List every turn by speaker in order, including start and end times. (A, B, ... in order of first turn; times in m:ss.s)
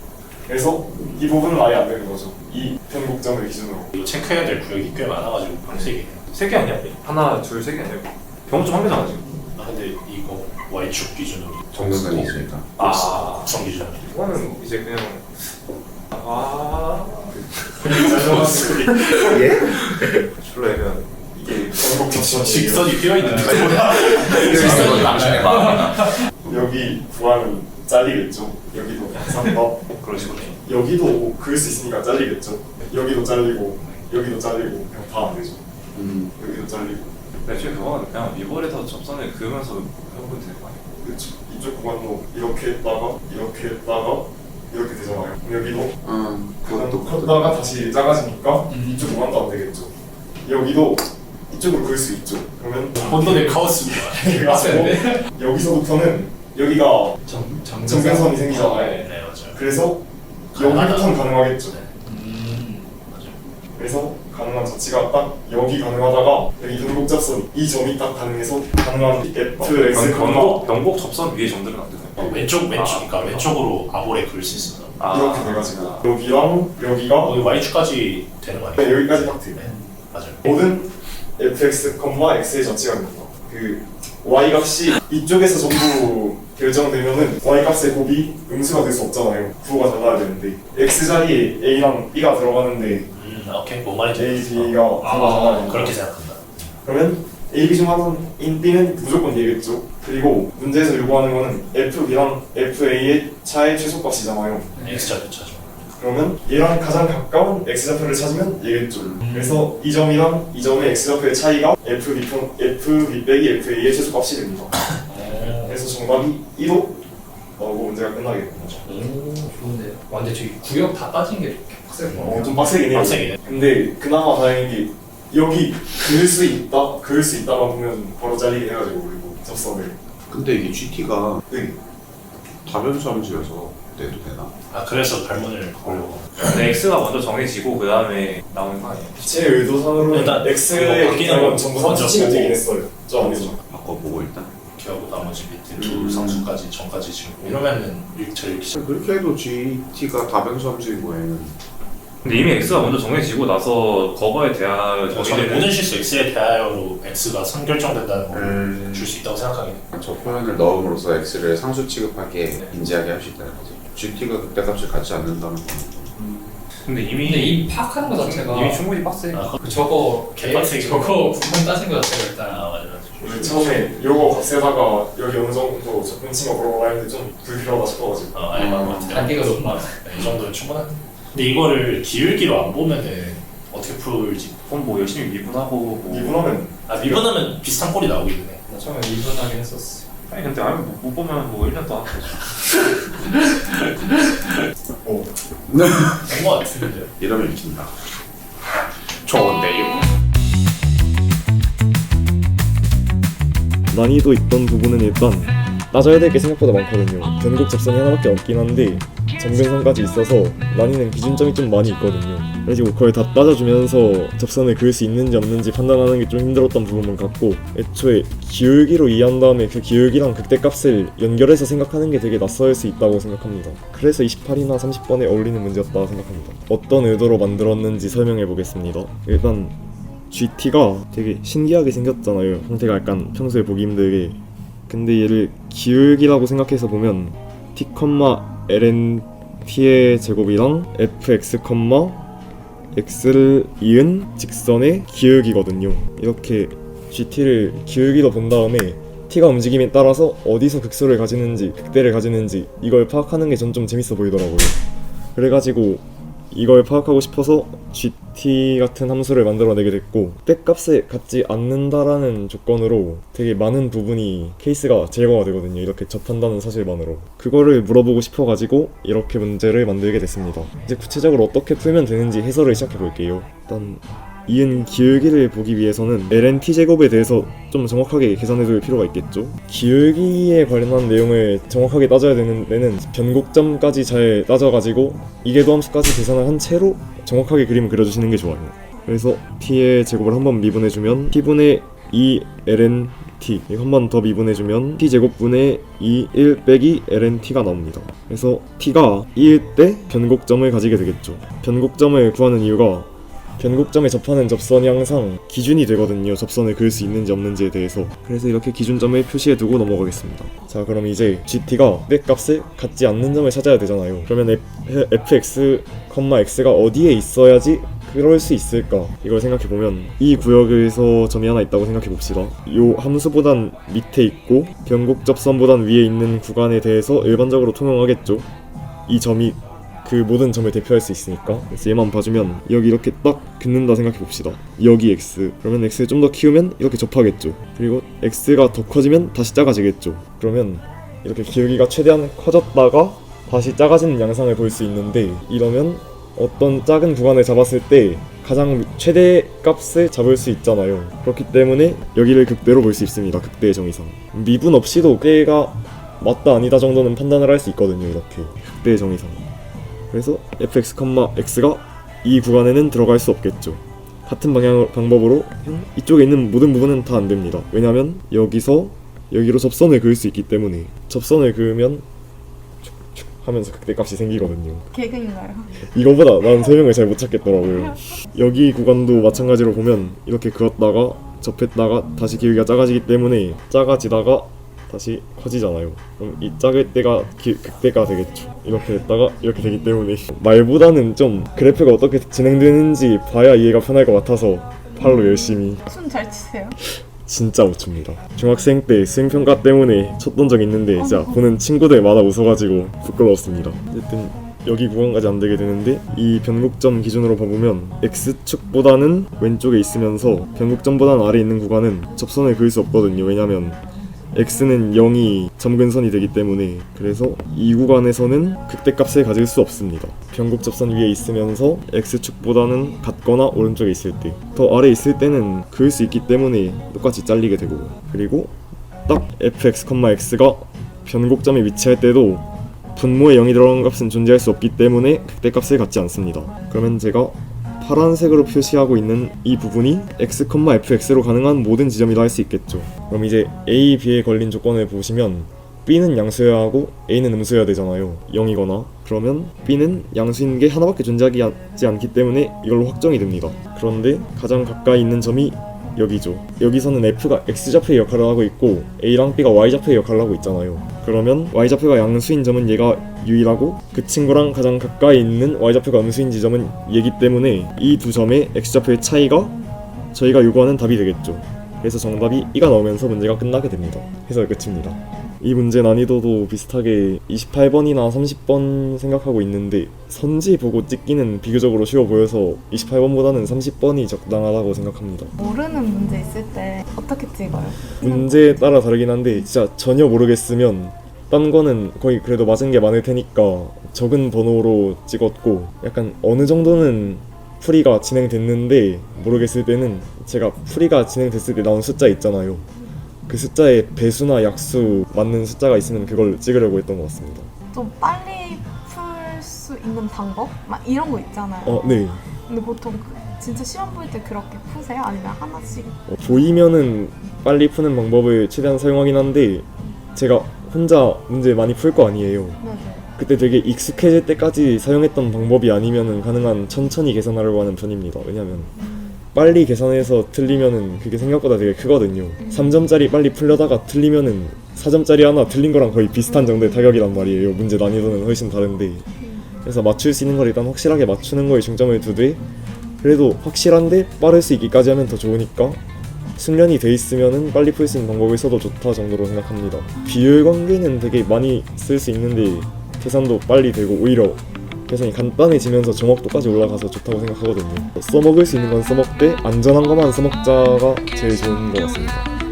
0:00.4-0:03.9 A
0:03.9-0:06.2 B
0:05.7-0:09.2 C
0:09.6-0:14.1 B
0:11.7-0:13.0 D
0:12.8-0:15.3 C
0:16.1-0:21.9 C
0:17.8-0:19.2 A
0:21.4-0:23.0 A
0:22.1-0:25.6 B
0:23.2-0:23.6 E
0:23.5-0:26.7 D
0:24.3-0:26.2 E
0:26.4-0:29.8 A
0:29.9-0:30.6 C
0:30.1-0:30.5 B
0:30.6-0:35.6 A
0:35.9-0:36.3 D
0:36.4-0:37.1 A
0:37.4-0:40.8 C
0:41.0-0:46.0 A
0:46.0-0:47.6 D
0:46.6-0:49.9 A
0:48.7-0:49.2 E
0:50.4-1:01.7 A
0:53.0-0:54.4 B
0:54.5-0:55.2 E
0:57.3-0:58.4 E
0:58.5-0:59.6 B
1:00.5-1:02.4 B
1:02.0-1:02.9 E
1:03.1-1:03.4 B
1:03.8-1:10.7 A
1:09.6-1:13.5 C
1:12.2-1:15.0 B
1:15.0-1:16.0 C
1:15.1-1:17.4 A
1:17.2-1:20.5 B
1:18.8-1:19.6 A
1:20.4-1:33.1 A
1:33.1-1:36.6 B
1:34.1-1:35.9 A
1:35.0-1:35.6 E
1:36.8-1:44.8 A
1:44.8-1:45.8 B
1:46.0-1:57.0 A
1:49.2-1:49.6 E
1:54.9-1:55.7 B
1:57.6-1:58.8 A
1:58.8-2:02.5 E
2:02.2-2:10.0 A
2:02.9-2:03.4 B
2:10.3-2:11.4 D
2:11.5-2:11.8 A
2:12.5-2:14.5 D
2:14.7-2:16.4 B
2:16.4-2:19.4 C
2:19.2-2:23.6 A
2:20.1-2:22.6 B
2:23.2-2:24.5 D
2:24.7-2:28.8 B
2:25.8-2:26.5 D
2:28.7-2:31.5 D
2:32.2-2:35.9 C
2:35.1-2:39.8 B
2:38.3-2:39.1 D
2:39.9-2:46.1 D
2:42.5-2:42.8 C
2:46.8-2:49.5 C
2:47.2-2:48.8 E
2:49.3-2:49.8 B
2:49.6-2:52.7 E
2:50.3-2:51.4 B
2:52.4-2:54.0 B
2:53.2-2:58.4 A
2:58.3-3:04.6 B
2:58.5-2:59.4 D
2:59.1-3:00.0 E
3:04.7-3:06.4 C
3:06.1-3:07.3 A
3:06.9-3:08.6 B
3:08.7-3:09.5 C
3:08.8-3:10.1 E
3:10.2-3:12.4 C
3:12.6-3:14.6 B
3:15.0-3:15.3 A
3:15.7-3:16.3 D
3:16.2-3:17.1 B
3:17.2-3:17.9 D
3:19.2-3:20.0 D
3:23.9-3:49.7 A
3:50.3-4:02.2 A
4:02.9-4:14.8 A
4:15.4-5:28.5 A
5:29.1-5:59.4 A
6:00.1-6:12.0 A
6:12.8-6:14.9 A
6:14.9-6:15.9 F
6:15.8-6:35.9 A
6:35.8-6:36.8 F
6:37.2-6:53.8 A
6:41.0-6:41.4 F
6:54.3-7:08.5 A
7:09.1-7:49.6 A
7:50.1-8:05.3 A
8:05.4-8:08.7 F
8:08.0-8:22.6 A
8:23.3-8:27.5 A
8:27.7-8:36.0 F
8:31.6-8:32.2 A
8:36.1-8:42.6 A
8:42.6-8:43.1 F
8:43.2-8:48.7 A
8:48.8-8:49.2 F
8:49.3-8:59.0 A
8:52.4-8:52.8 F
8:56.4-8:56.7 F
8:59.2-8:59.6 F
8:59.6-9:02.4 A
9:03.0-9:05.8 A
9:06.4-9:22.3 A